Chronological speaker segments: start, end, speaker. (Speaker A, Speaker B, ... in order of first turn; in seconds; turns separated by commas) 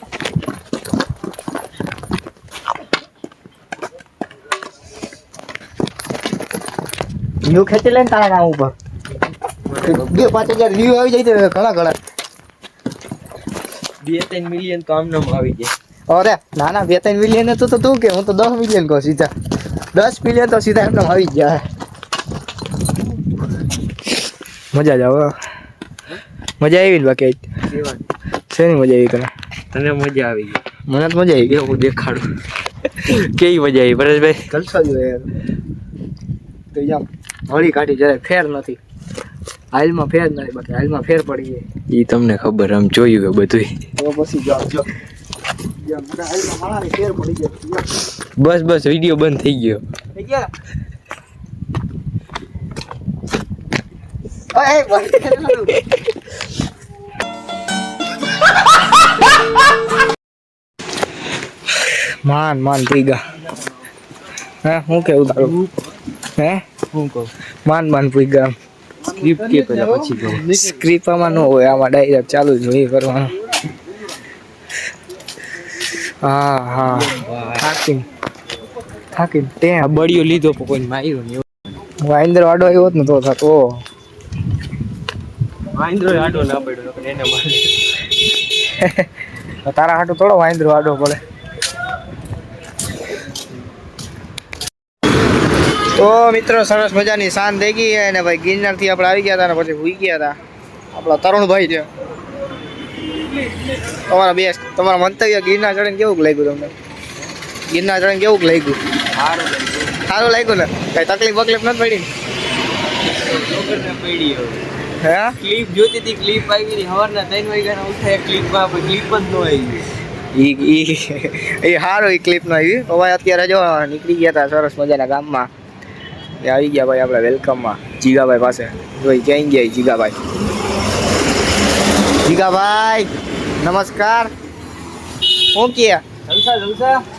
Speaker A: 7.4-8.8, Speaker B: 9.7-10.2, Speaker A: 9.8-12.0, Speaker B: 14.0-15.7, Speaker A: 16.1-19.3, Speaker A: 19.9-21.6, Speaker A: 24.7-25.3, Speaker A: 26.6-27.5, Speaker B: 27.7-28.0, Speaker A: 28.5-29.3, Speaker B: 29.7-30.6, Speaker A: 30.9-31.7, Speaker B: 31.5-32.3, Speaker B: 33.0-34.4, Speaker A: 34.5-35.3, Speaker A: 36.7-38.8, Speaker A: 39.7-41.6, Speaker B: 41.9-43.7, Speaker A: 44.0-44.9, Speaker A: 45.9-47.9, Speaker B: 48.4-49.8, Speaker A: 50.1-50.5, Speaker A: 54.5-55.8, Speaker A: 62.2-63.2, Speaker A: 64.6-65.5, Speaker B: 65.3-65.7, Speaker A: 66.3-66.6, Speaker B: 66.9-67.3, Speaker A: 67.6-68.5, Speaker B: 69.2-70.5, Speaker A: 70.4-73.3, Speaker A: 76.2-78.1, Speaker B: 76.8-77.6, Speaker A: 79.1-80.0, Speaker B: 79.9-81.4, Speaker A: 82.0-83.8, Speaker B: 85.8-87.7, Speaker A: 88.7-89.0, Speaker A: 89.6-91.2, Speaker A: 95.9-100.4, Speaker A: 100.9-101.9, Speaker A: 103.9-106.7, Speaker A: 107.7-108.8, Speaker B: 109.1-110.0, Speaker A: 110.0-112.1, Speaker B: 113.2-114.6, Speaker A: 115.0-115.3, Speaker B: 115.4-119.8, Speaker A: 120.3-125.5, Speaker A: 126.4-130.2, Speaker A: 132.2-134.3, Speaker A: 135.5-136.0, Speaker B: 136.3-137.0